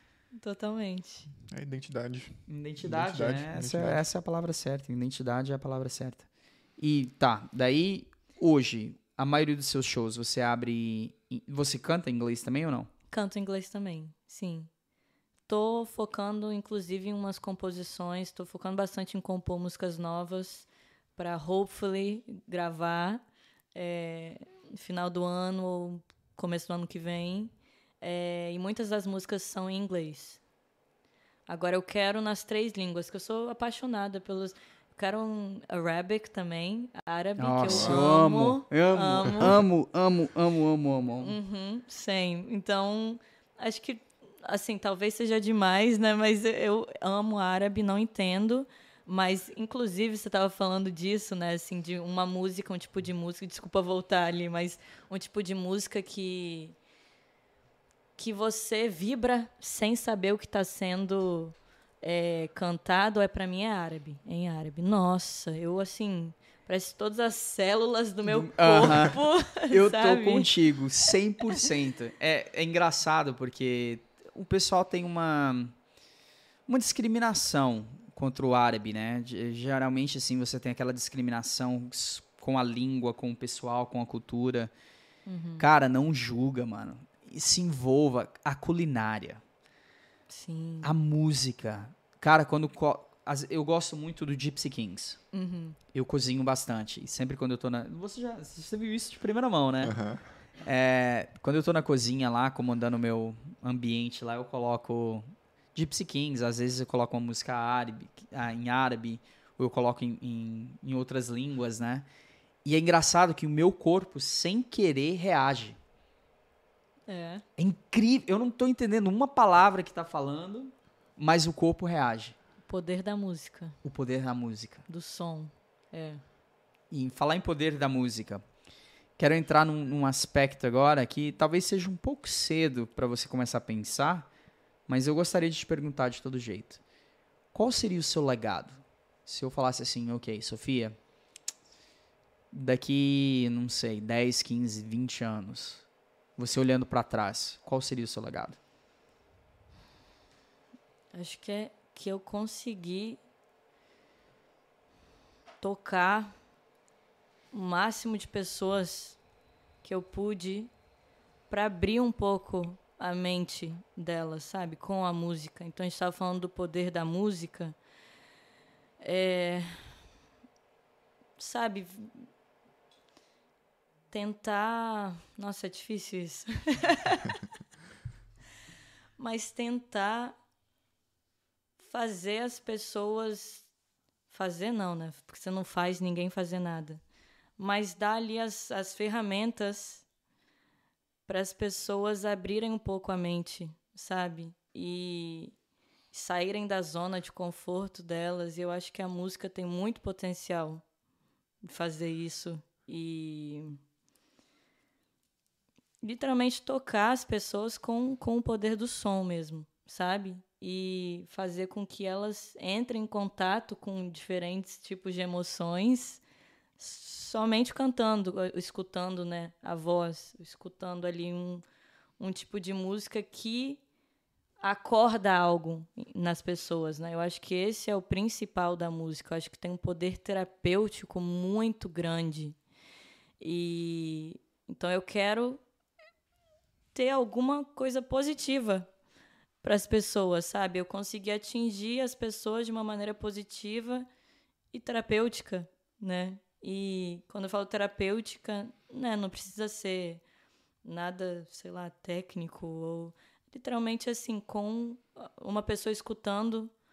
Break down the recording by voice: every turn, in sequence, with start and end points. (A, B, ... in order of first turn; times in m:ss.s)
0:00.4-0:01.3 A
0:01.4-0:04.1 B
0:02.5-0:06.3 C
0:06.8-0:12.9 C
0:13.1-0:14.7 A
0:15.5-0:23.2 A
0:23.8-0:30.4 A
0:31.5-0:39.6 A
0:37.4-0:41.4 C
0:37.7-0:38.0 B
0:41.2-0:56.8 A
0:58.2-1:10.5 A
1:08.3-1:15.7 C
1:16.7-1:24.7 C
1:25.3-1:25.7 A
1:25.6-1:29.4 C
1:30.3-1:30.9 A
1:30.8-1:35.2 C
1:35.3-1:35.8 A
1:35.9-1:40.0 C
1:39.8-1:40.2 B
1:40.6-1:52.1 C
1:52.6-1:55.8 C
1:57.1-1:57.4 A
1:57.6-2:02.4 C
2:02.7-2:03.8 A
2:03.8-2:04.8 C
2:04.9-2:06.2 A
2:06.9-2:08.4 C
2:09.2-2:14.3 C
2:14.9-2:16.8 C
2:17.5-2:21.0 C
2:22.5-2:25.9 C
2:26.4-2:28.6 C
2:31.1-2:33.2 A
2:35.6-2:36.4 A
2:37.5-2:39.2 A
2:39.8-2:40.7 A
2:41.5-2:47.8 A
2:49.0-2:49.9 A
2:51.4-2:52.3 A
2:54.1-2:57.4 A
2:59.2-3:00.4 A
3:01.8-3:03.7 A
3:04.3-3:07.0 A
3:07.6-3:10.0 A
3:11.3-3:15.6 A
3:16.1-3:20.8 A
3:21.6-3:23.8 A
3:26.0-3:36.2 A
3:36.8-3:41.6 A
3:42.2-3:43.8 A
3:44.6-3:52.6 A
3:53.4-3:55.6 A
3:56.9-3:58.9 A
3:59.6-4:04.1 A
4:04.7-4:10.2 A
4:10.8-4:16.7 A